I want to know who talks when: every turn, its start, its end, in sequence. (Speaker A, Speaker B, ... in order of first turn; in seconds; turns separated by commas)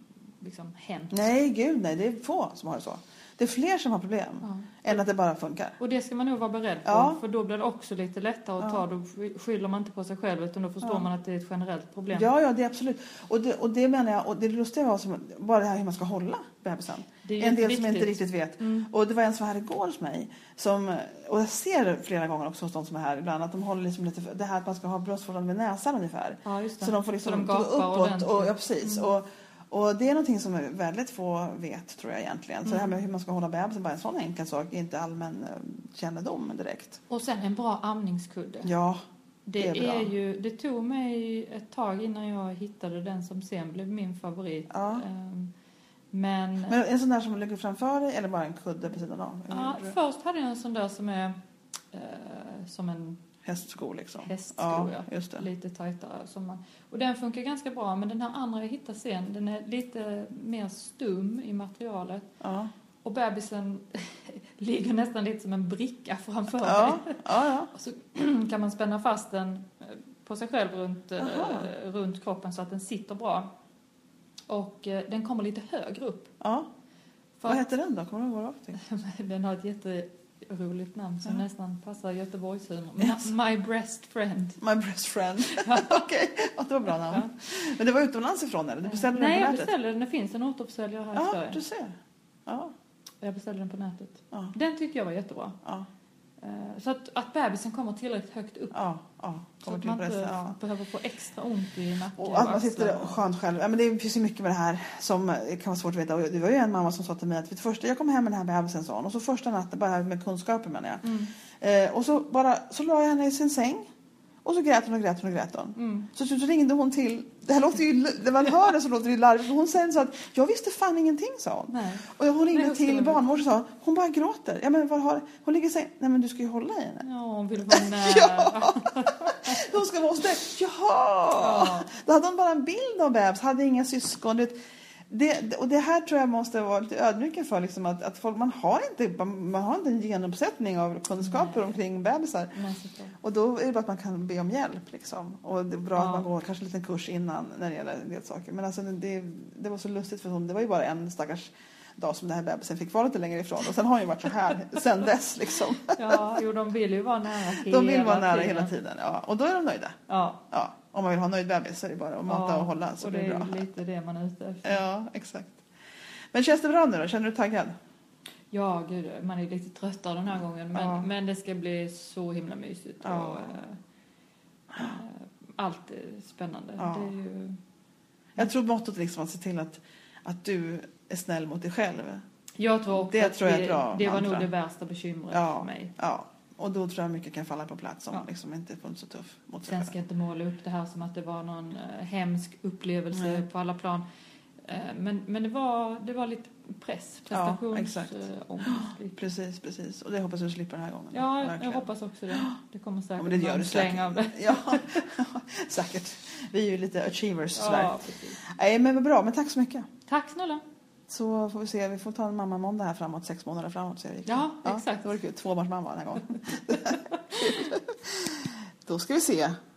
Speaker A: 0.4-1.2, Speaker B: 1.1-5.7, Speaker A: 4.4-5.0, Speaker A: 5.8-12.3, Speaker B: 6.8-7.2, Speaker B: 12.1-37.0, Speaker A: 17.2-18.9, Speaker A: 26.4-29.1, Speaker A: 32.6-32.9, Speaker A: 37.1-38.7, Speaker B: 38.6-39.0, Speaker A: 39.5-45.5, Speaker B: 39.6-40.1, Speaker B: 44.7-45.0, Speaker A: 46.1-46.8, Speaker B: 46.7-50.0, Speaker A: 49.5-51.4, Speaker A: 51.9-53.2, Speaker B: 53.4-55.5, Speaker A: 54.2-62.3, Speaker B: 62.4-62.7, Speaker A: 63.0-73.5, Speaker B: 66.6-67.7, Speaker B: 71.2-71.7, Speaker A: 74.5-76.3, Speaker B: 76.4-76.7, Speaker B: 77.4-78.8, Speaker A: 78.8-84.6, Speaker B: 83.0-83.3, Speaker B: 84.6-89.7, Speaker A: 85.4-86.1, Speaker A: 86.9-87.3, Speaker A: 88.8-91.6, Speaker B: 91.1-92.7, Speaker A: 93.2-95.6, Speaker A: 96.4-98.8, Speaker B: 98.7-100.6, Speaker A: 99.6-103.2, Speaker B: 102.2-111.0, Speaker A: 111.0-111.3, Speaker B: 111.6-113.9, Speaker B: 114.4-127.0, Speaker A: 115.8-116.1, Speaker A: 121.7-123.2, Speaker A: 127.0-129.7, Speaker B: 127.7-134.6, Speaker A: 131.4-131.9, Speaker B: 135.1-142.5, Speaker A: 141.2-141.7, Speaker A: 142.5-143.2, Speaker B: 143.2-156.2, Speaker A: 145.9-146.2, Speaker A: 155.9-158.7, Speaker B: 157.5-160.0, Speaker A: 160.1-160.4, Speaker B: 160.5-163.7, Speaker A: 162.3-164.8, Speaker B: 164.6-165.6, Speaker B: 166.3-167.7, Speaker A: 168.5-173.8, Speaker B: 170.7-171.1, Speaker B: 173.0-173.5, Speaker A: 174.7-177.6, Speaker B: 176.8-177.1, Speaker B: 178.3-182.2, Speaker A: 182.6-185.9, Speaker B: 182.9-184.5, Speaker B: 185.3-189.9, Speaker A: 189.6-194.0, Speaker B: 193.1-193.4, Speaker A: 194.6-199.2, Speaker B: 197.3-198.1, Speaker B: 198.7-202.5, Speaker A: 201.1-205.2, Speaker B: 203.2-209.9, Speaker A: 207.5-208.4, Speaker A: 210.1-210.6, Speaker B: 211.1-219.6, Speaker A: 214.2-215.1, Speaker A: 216.7-217.8